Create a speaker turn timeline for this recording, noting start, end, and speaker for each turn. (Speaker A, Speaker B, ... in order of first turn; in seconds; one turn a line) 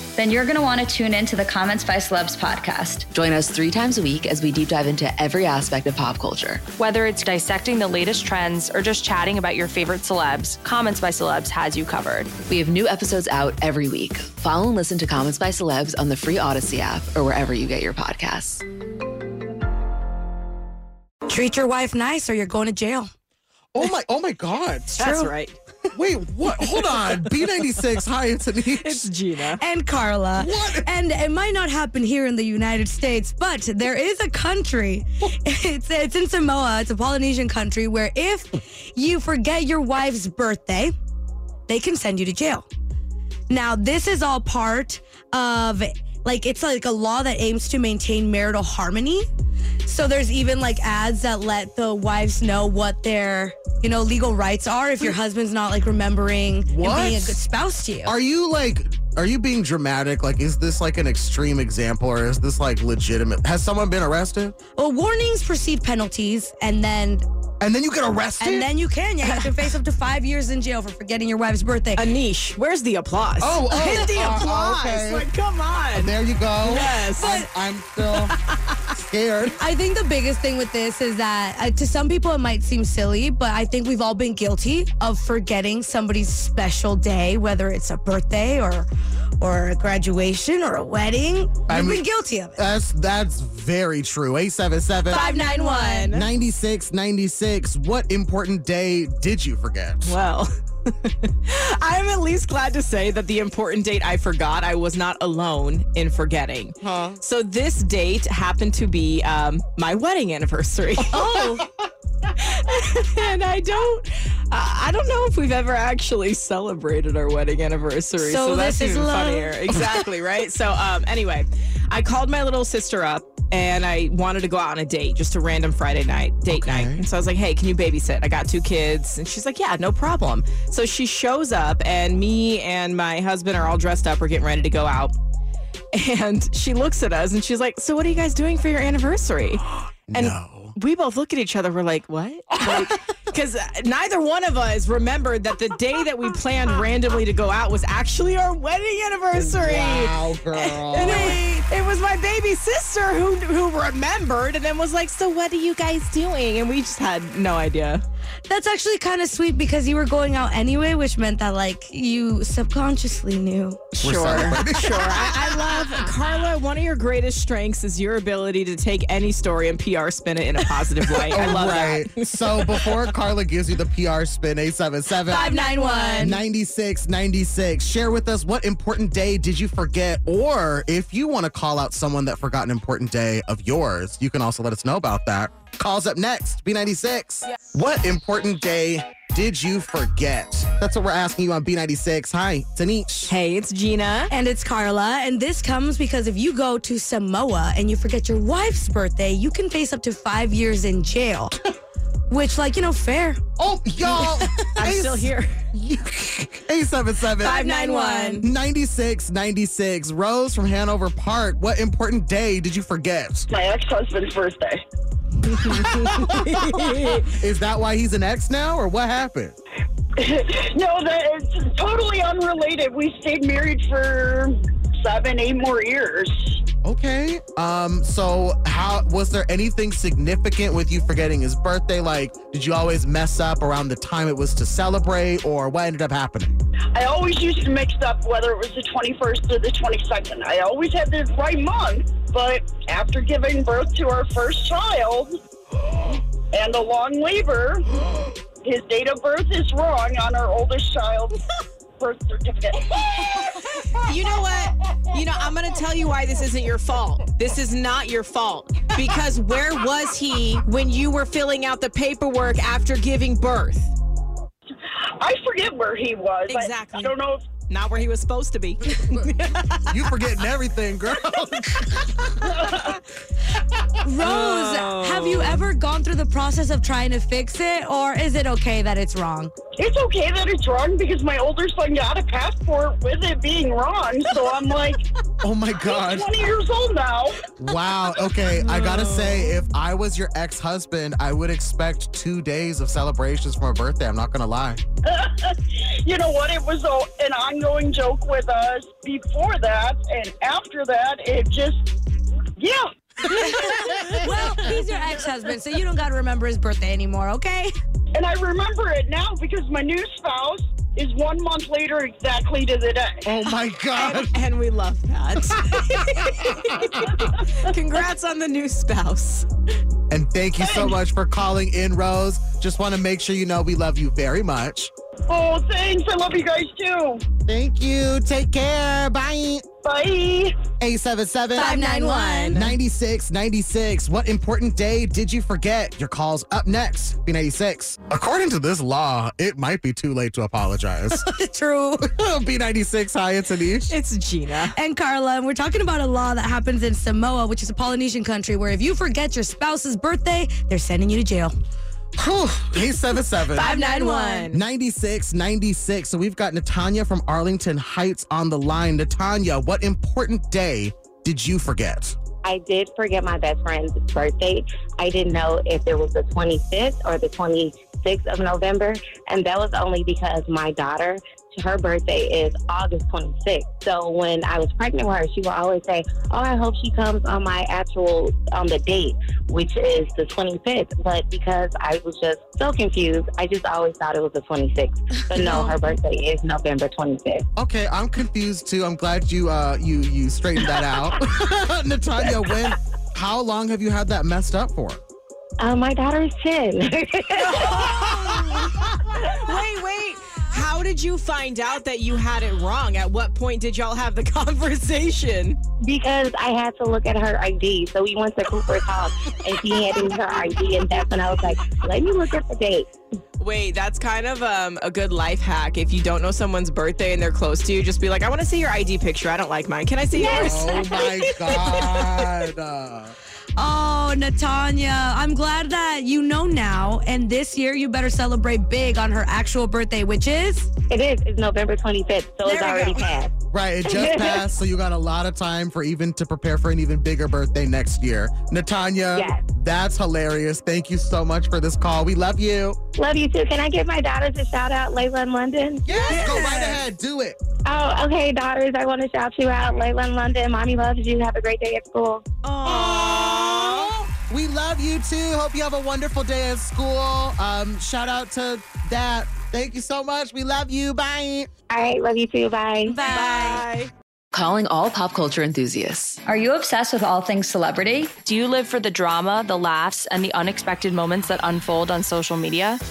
Speaker A: 0.2-3.1
Speaker B: 3.1-6.7
Speaker C: 6.8-12.3
Speaker B: 12.5-18.6
Speaker D: 21.3-23.1
Speaker E: 23.7-24.9
Speaker F: 25.0-25.6
Speaker D: 25.0-25.3
Speaker E: 25.9-29.1
Speaker F: 26.6-27.8
Speaker F: 28.8-29.6
Speaker D: 29.6-40.9
Speaker E: 30.4-30.9
Speaker D: 41.7-42.6
Speaker D: 43.5-49.3
Speaker D: 49.8-58.1
Speaker E: 56.7-57.4
Speaker E: 58.0-64.5
Speaker D: 64.8-67.3
Speaker E: 67.6-68.7
Speaker D: 68.4-72.0
Speaker F: 69.2-69.7
Speaker F: 72.0-77.4
Speaker E: 73.4-75.3
Speaker E: 75.9-78.3
Speaker D: 77.2-77.5
Speaker F: 78.1-78.8
Speaker E: 78.9-79.6
Speaker D: 79.6-88.9
Speaker D: 89.4-92.6
Speaker E: 91.7-95.2
Speaker D: 95.1-96.0
Speaker F: 95.1-96.3
Speaker E: 96.1-100.2
Speaker F: 100.0-111.6
Speaker E: 106.8-107.2
Speaker E: 111.0-111.7
Speaker F: 112.4-135.1
Speaker D: 118.2-119.6
Speaker E: 119.7-120.0
Speaker E: 126.5-127.0
Speaker F: 135.9-158.0
Speaker E: 140.1-140.8
Speaker E: 142.5-143.0
Speaker E: 149.3-151.4
Speaker D: 151.1-151.3
Speaker D: 158.5-163.9
Speaker F: 164.0-173.0
Speaker E: 164.0-165.6
Speaker E: 171.3-175.6
Speaker D: 175.3-176.4
Speaker F: 175.5-176.3
Speaker E: 176.2-193.3
Speaker F: 193.3-194.3
Speaker D: 194.3-201.6
Speaker D: 202.3-203.4
Speaker E: 203.6-207.6
Speaker F: 204.1-205.6
Speaker F: 207.4-208.4
Speaker D: 207.4-208.4
Speaker E: 208.4-213.5
Speaker G: 213.5-214.8
Speaker F: 215.4-217.3
Speaker E: 217.3-219.6
Speaker G: 220.2-226.6
Speaker E: 226.8-236.6
Speaker G: 236.9-245.3
Speaker G: 246.5-247.8
Speaker G: 248.6-251.4
Speaker G: 252.0-253.0
Speaker F: 253.9-263.9
Speaker G: 265.2-267.4
Speaker F: 266.5-267.1
Speaker F: 267.7-270.2
Speaker E: 269.9-272.5
Speaker G: 272.5-272.9
Speaker D: 274.0-279.5
Speaker F: 274.2-275.7
Speaker G: 279.8-285.0
Speaker E: 285.4-286.4
Speaker G: 285.8-287.4
Speaker E: 287.6-294.8
Speaker F: 288.5-289.6
Speaker G: 295.1-301.8
Speaker G: 302.6-303.9
Speaker D: 303.4-307.7
Speaker F: 303.9-304.4
Speaker G: 304.6-305.5
Speaker G: 308.1-313.2
Speaker E: 313.3-314.4
Speaker F: 314.0-319.5
Speaker E: 316.4-317.1
Speaker E: 320.1-324.9
Speaker G: 320.6-320.9
Speaker G: 325.3-327.3
Speaker E: 327.5-329.6
Speaker G: 329.8-330.6
Speaker E: 330.8-331.7
Speaker D: 331.6-332.7
Speaker F: 331.6-332.6
Speaker E: 332.5-341.2
Speaker D: 341.1-342.0
Speaker E: 342.0-343.9
Speaker F: 343.9-344.8
Speaker D: 344.7-351.5
Speaker E: 352.2-353.7
Speaker F: 353.5-354.6
Speaker D: 353.6-354.5
Speaker E: 354.5-362.2
Speaker H: 362.4-387.5
Speaker E: 387.6-395.0
Speaker H: 395.6-398.1
Speaker F: 397.4-405.6
Speaker E: 398.0-398.9
Speaker H: 405.8-412.9
Speaker F: 413.4-422.2
Speaker H: 420.2-421.3
Speaker D: 420.2-420.5
Speaker E: 420.3-423.1
Speaker D: 423.6-430.7
Speaker H: 430.9-433.3
Speaker D: 432.4-433.0
Speaker E: 433.5-442.8
Speaker H: 433.9-434.4
Speaker H: 439.1-439.4
Speaker H: 443.0-446.2
Speaker E: 445.8-447.4
Speaker D: 446.1-446.8
Speaker H: 447.6-452.2
Speaker F: 452.4-453.9
Speaker E: 452.6-461.5
Speaker H: 461.7-463.0
Speaker D: 462.9-463.6
Speaker F: 463.0-463.9
Speaker B: 464.3-466.2
Speaker A: 466.3-468.2
Speaker C: 468.2-472.8